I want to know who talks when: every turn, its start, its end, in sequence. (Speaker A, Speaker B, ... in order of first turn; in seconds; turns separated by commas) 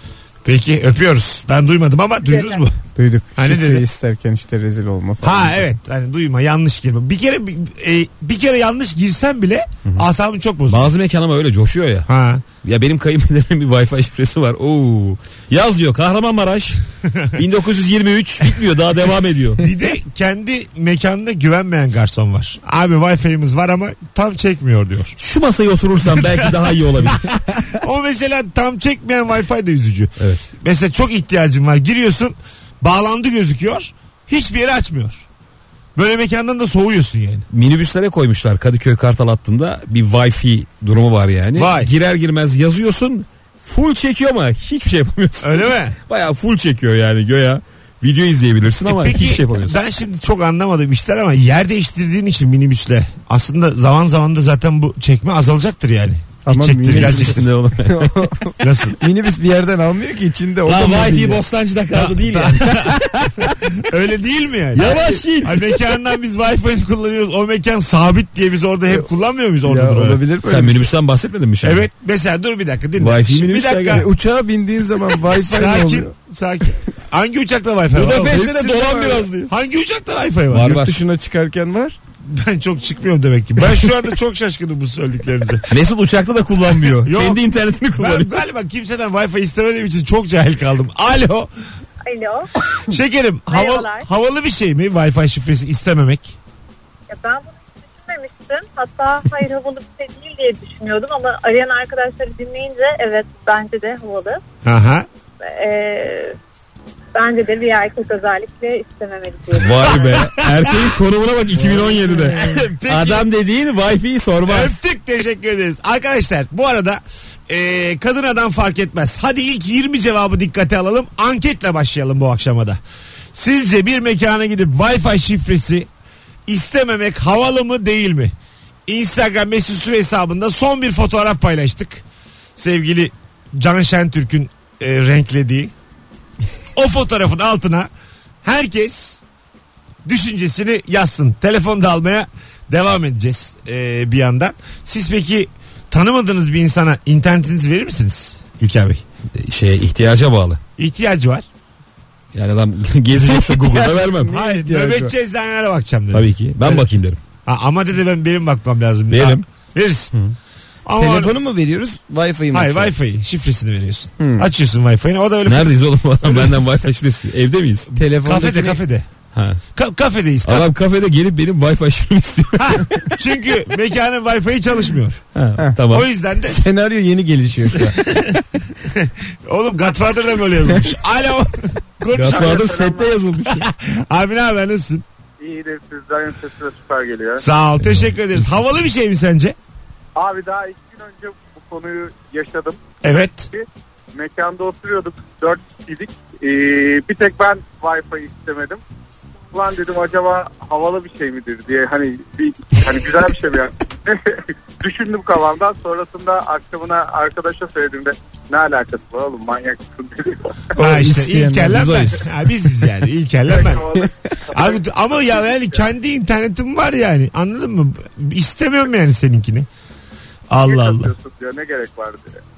Speaker A: 0.4-2.8, Speaker B: 3.0-5.6, Speaker A: 3.4-3.8, Speaker A: 5.2-10.9, Speaker C: 10.7-12.1, Speaker A: 12.1-12.4, Speaker C: 12.6-16.8, Speaker C: 17.3-19.7, Speaker A: 19.6-25.1, Speaker C: 25.2-27.2, Speaker A: 26.2-26.5, Speaker A: 27.1-35.3, Speaker C: 30.2-30.5, Speaker A: 35.9-37.5, Speaker C: 37.5-49.8, Speaker A: 41.5-41.9, Speaker A: 45.4-46.0, Speaker A: 48.9-57.5, Speaker B: 56.4-61.4, Speaker C: 56.9-58.2, Speaker A: 58.6-59.0, Speaker C: 60.7-63.2, Speaker A: 61.9-70.2, Speaker C: 64.7-65.9, Speaker B: 64.8-65.2, Speaker B: 69.6-70.9, Speaker C: 70.4-71.8, Speaker A: 71.6-74.1, Speaker C: 73.0-74.1, Speaker B: 73.9-76.1, Speaker A: 75.2-78.4, Speaker C: 77.9-79.5, Speaker B: 78.1-79.3, Speaker A: 79.5-80.8, Speaker C: 80.5-81.0, Speaker B: 80.5-82.0, Speaker A: 82.2-85.7, Speaker C: 85.7-88.3, Speaker A: 87.0-87.4, Speaker A: 87.9-91.5, Speaker D: 92.0-92.5, Speaker A: 92.9-96.3, Speaker D: 93.5-94.0, Speaker D: 97.1-104.4, Speaker A: 104.6-105.0, Speaker D: 105.4-106.3, Speaker D: 107.1-109.9, Speaker C: 109.5-114.8, Speaker A: 109.8-111.0, Speaker B: 111.5-112.6, Speaker A: 112.3-113.3, Speaker A: 114.4-122.8, Speaker A: 123.3-125.9, Speaker A: 126.5-128.3, Speaker A: 128.9-132.0, Speaker A: 132.6-135.7, Speaker A: 136.7-137.9, Speaker A: 138.4-139.2, Speaker A: 140.0-149.0, Speaker C: 149.4-150.6, Speaker A: 150.8-151.4, Speaker C: 152.3-154.3, Speaker B: 153.2-155.1, Speaker A: 154.2-156.9, Speaker C: 156.1-157.2, Speaker A: 157.4-160.1, Speaker C: 159.1-159.4, Speaker A: 160.8-161.3, Speaker B: 160.9-162.9, Speaker A: 162.5-166.6, Speaker B: 164.2-164.5, Speaker C: 165.4-167.9, Speaker A: 167.9-169.1, Speaker B: 167.9-168.8, Speaker C: 169.3-169.6, Speaker A: 169.7-170.7, Speaker C: 170.4-173.1, Speaker A: 172.6-175.2, Speaker C: 175.3-176.1, Speaker A: 175.9-176.6, Speaker B: 176.5-178.1, Speaker A: 177.9-182.8, Speaker C: 182.1-183.7, Speaker E: 182.3-183.1, Speaker A: 183.5-185.0, Speaker E: 185.4-187.4, Speaker A: 187.4-189.6, Speaker E: 190.2-198.8, Speaker A: 193.0-193.5, Speaker E: 199.5-210.6, Speaker B: 210.8-211.9, Speaker A: 210.8-213.9, Speaker C: 211.7-212.3, Speaker E: 213.5-215.9, Speaker A: 214.5-219.7, Speaker A: 220.5-221.1, Speaker E: 220.6-222.4